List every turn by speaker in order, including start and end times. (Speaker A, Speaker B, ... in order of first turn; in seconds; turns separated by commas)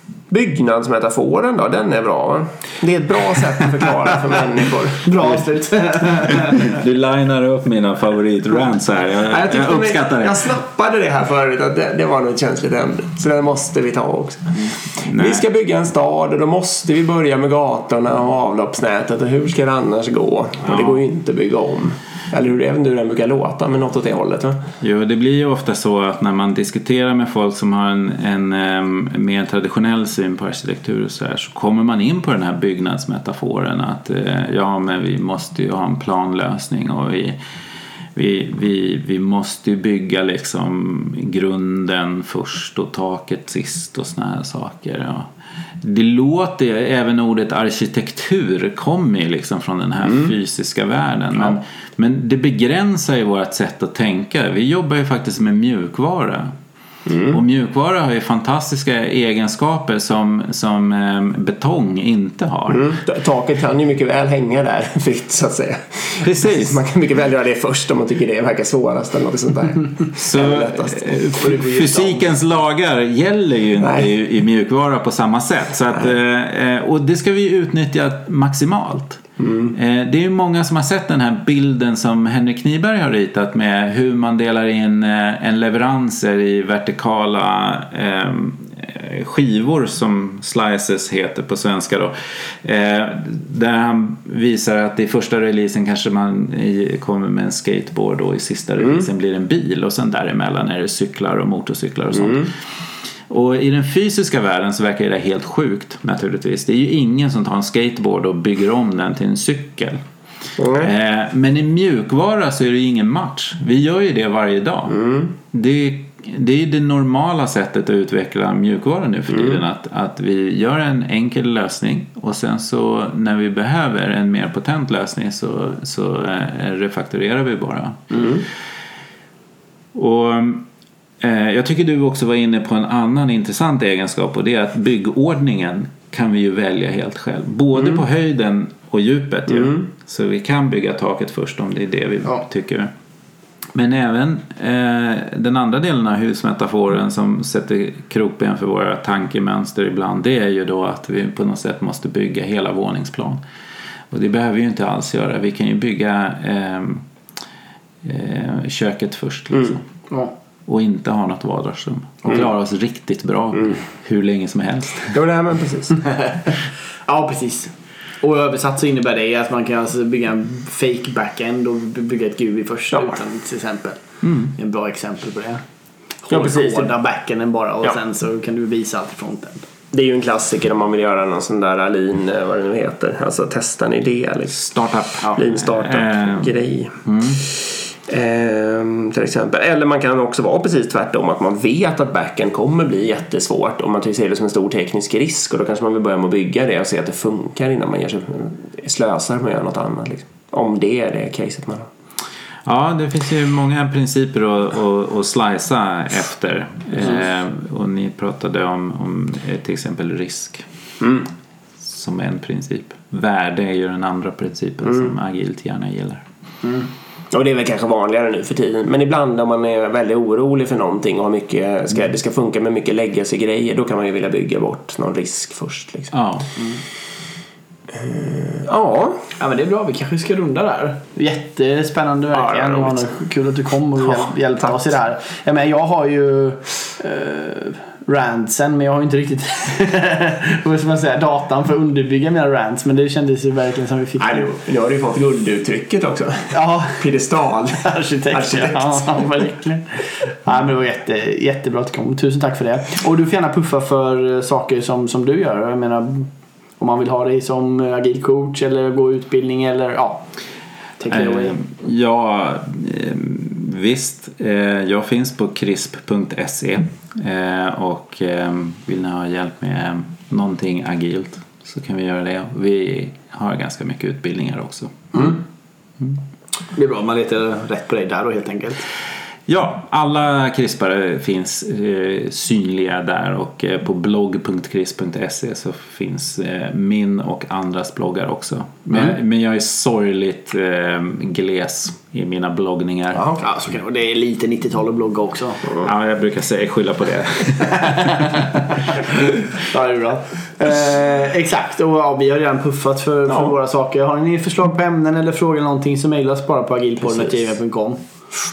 Speaker A: 0.3-5.5, Speaker B: 5.0-6.7, Speaker C: 6.3-10.5, Speaker A: 9.3-24.6, Speaker C: 15.0-15.4, Speaker C: 20.6-21.0, Speaker C: 24.8-37.4, Speaker C: 38.1-45.3, Speaker C: 45.8-56.5, Speaker A: 57.0-57.4, Speaker C: 57.3-62.9, Speaker A: 62.7-71.8, Speaker C: 66.2-66.8, Speaker C: 70.1-102.5, Speaker B: 71.4-72.2, Speaker A: 73.8-74.1, Speaker A: 79.4-79.7, Speaker C: 103.3-110.0, Speaker A: 110.6-110.9, Speaker C: 110.7-128.4, Speaker A: 114.9-115.3, Speaker C: 129.9-130.7, Speaker C: 131.2-142.9, Speaker C: 143.7-153.4, Speaker C: 154.1-157.0, Speaker C: 158.0-159.8, Speaker C: 160.7-165.2, Speaker A: 165.1-166.0, Speaker B: 166.0-166.5, Speaker B: 167.1-175.6, Speaker C: 174.2-174.5, Speaker B: 176.2-179.7, Speaker A: 176.3-176.9, Speaker A: 179.9-184.6, Speaker C: 184.5-187.4, Speaker A: 185.3-201.9, Speaker C: 202.6-210.6, Speaker A: 211.0-211.3, Speaker C: 211.8-216.2, Speaker A: 217.3-226.1, Speaker C: 226.1-226.5, Speaker A: 227.9-229.2, Speaker B: 229.4-244.5, Speaker A: 232.3-233.1, Speaker A: 234.1-234.7, Speaker A: 244.2-249.2, Speaker B: 246.5-247.0, Speaker B: 247.8-260.2, Speaker B: 261.0-261.6, Speaker C: 261.1-275.3, Speaker B: 276.7-278.9, Speaker C: 279.5-293.2, Speaker A: 293.1-293.4, Speaker B: 293.4-295.7, Speaker C: 295.7-299.1, Speaker B: 297.8-298.4, Speaker B: 299.7-308.0